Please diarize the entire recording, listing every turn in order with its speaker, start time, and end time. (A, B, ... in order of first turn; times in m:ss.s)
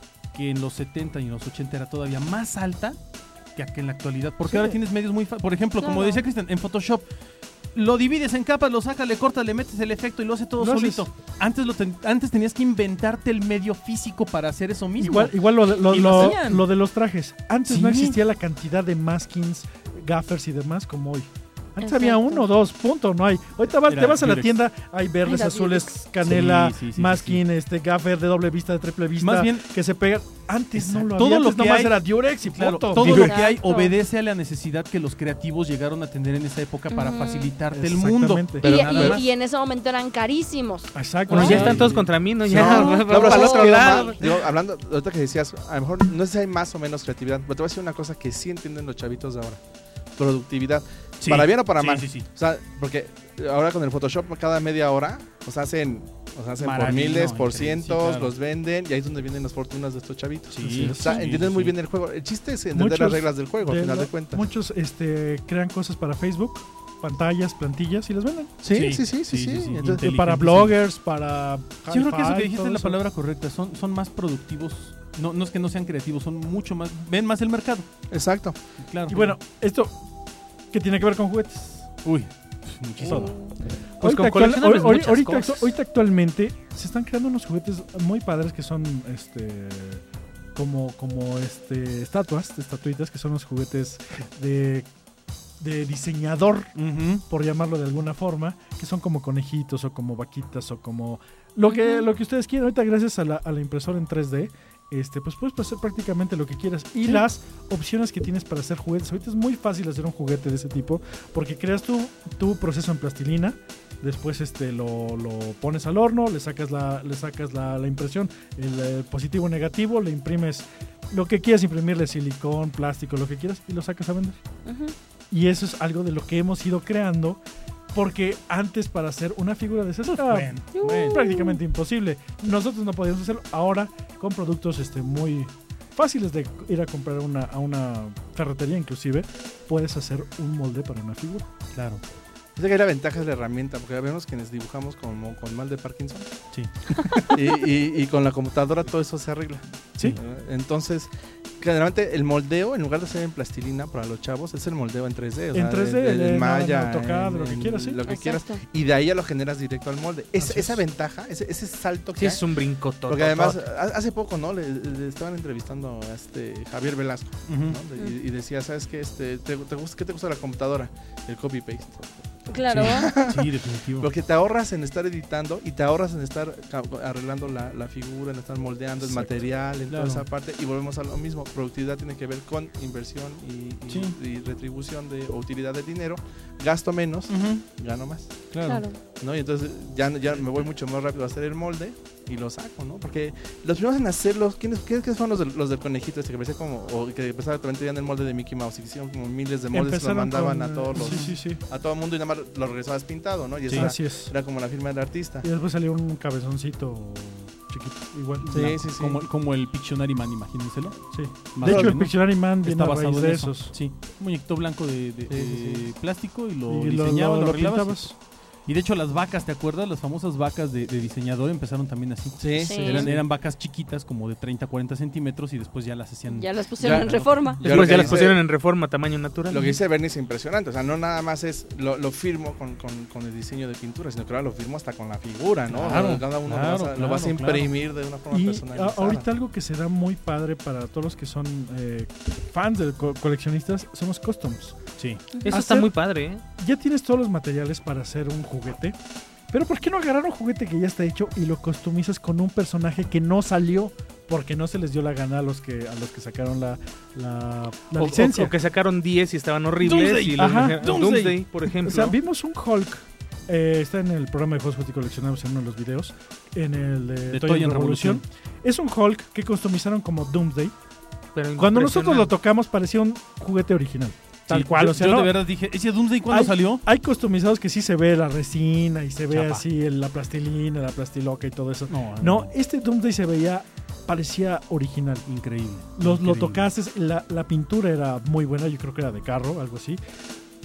0:00.3-0:03.0 A
0:03.6-0:07.0 A
0:04.5-0:04.8 B
0:05.8-0:06.2 C
0:07.8-0:16.7 A
0:10.6-0:11.1 B
0:15.0-0:33.3 B
0:17.7-0:18.2 A
0:21.8-0:22.5 C
0:23.9-0:24.5 A
0:25.2-0:25.9 C
0:26.2-0:27.4 A
0:29.2-0:29.6 A
0:30.8-0:39.2 A
0:33.0-0:33.4 D
0:33.0-0:34.0 C
0:36.9-0:37.5 C
0:37.7-0:38.7 B
0:38.6-0:41.7 C
0:38.7-0:39.2 E
0:40.9-0:42.0 B
0:41.3-0:42.8 A
0:41.3-0:44.2 D
0:42.5-0:49.6 E
0:42.6-0:44.2 C
0:50.2-1:04.5 E
0:51.2-0:52.3 A
0:56.6-0:58.3 A
1:00.5-1:01.8 A
1:00.6-1:01.2 B
1:02.7-1:08.6 B
1:08.6-1:10.8 A
1:08.7-1:10.0 E
1:09.9-1:13.0 B
1:11.9-1:17.9 A
1:18.1-1:18.6 E
1:18.8-1:19.4 A
1:19.1-1:20.0 B
1:20.7-1:21.9 B
1:22.0-1:23.4 A
1:23.0-1:23.3 B
1:23.0-1:23.6 C
1:24.0-1:25.7 D
1:24.0-1:30.0 B
1:30.6-1:34.9 B
1:35.6-1:36.7 B
1:36.8-1:37.2 A
1:37.3-2:04.4 B
1:41.7-1:42.1 C
2:04.7-2:05.0 C
2:05.3-2:07.4 B
2:07.9-2:21.5 B
2:10.1-2:11.2 A
2:10.8-2:11.6 C
2:21.7-2:22.0 A
2:22.6-2:26.4 E
2:26.5-2:27.0 A
2:27.1-2:42.4 E
2:35.5-2:38.0 B
2:38.0-2:38.6 C
2:40.4-2:40.8 B
2:42.2-2:43.6 D
2:43.1-3:08.3 E
2:47.5-2:47.8 A
2:52.5-2:53.1 C
2:52.7-2:54.1 A
2:59.0-2:59.3 A
2:59.9-3:00.2 A
3:03.9-3:04.2 A
3:07.3-3:07.6 A
3:08.5-3:08.9 A
3:08.7-3:09.0 C
3:09.2-3:25.5 E
3:19.7-3:21.6 B
3:21.0-3:21.3 A
3:23.7-3:23.9 A
3:23.7-3:24.3 B
3:25.4-3:28.5 B
3:28.5-3:29.2 E
3:28.5-3:48.2 A
3:31.1-3:33.7 B
3:31.6-3:32.0 E
3:35.3-3:35.9 E
3:36.7-3:38.1 B
3:42.4-3:43.2 E
3:42.6-3:43.1 C
3:46.3-3:47.7 C
3:46.8-3:48.4 E
3:47.6-3:49.8 D
3:49.5-3:59.3 E
3:55.7-3:57.7 A
3:58.3-4:04.8 B
4:05.0-4:05.2 A
4:05.4-4:06.4 D
4:05.5-4:05.9 B
4:06.6-4:09.0 B
4:09.5-4:18.6 B
4:18.0-4:22.2 D
4:19.8-4:21.4 A
4:20.4-4:20.9 B
4:21.8-4:30.8 B
4:27.3-4:28.2 A
4:31.4-4:32.3 D
4:31.6-4:35.4 B
4:34.5-4:36.8 A
4:36.3-4:45.3 B
4:39.3-4:39.6 A
4:41.9-4:42.5 A
4:45.3-4:46.7 A
4:46.0-4:50.0 B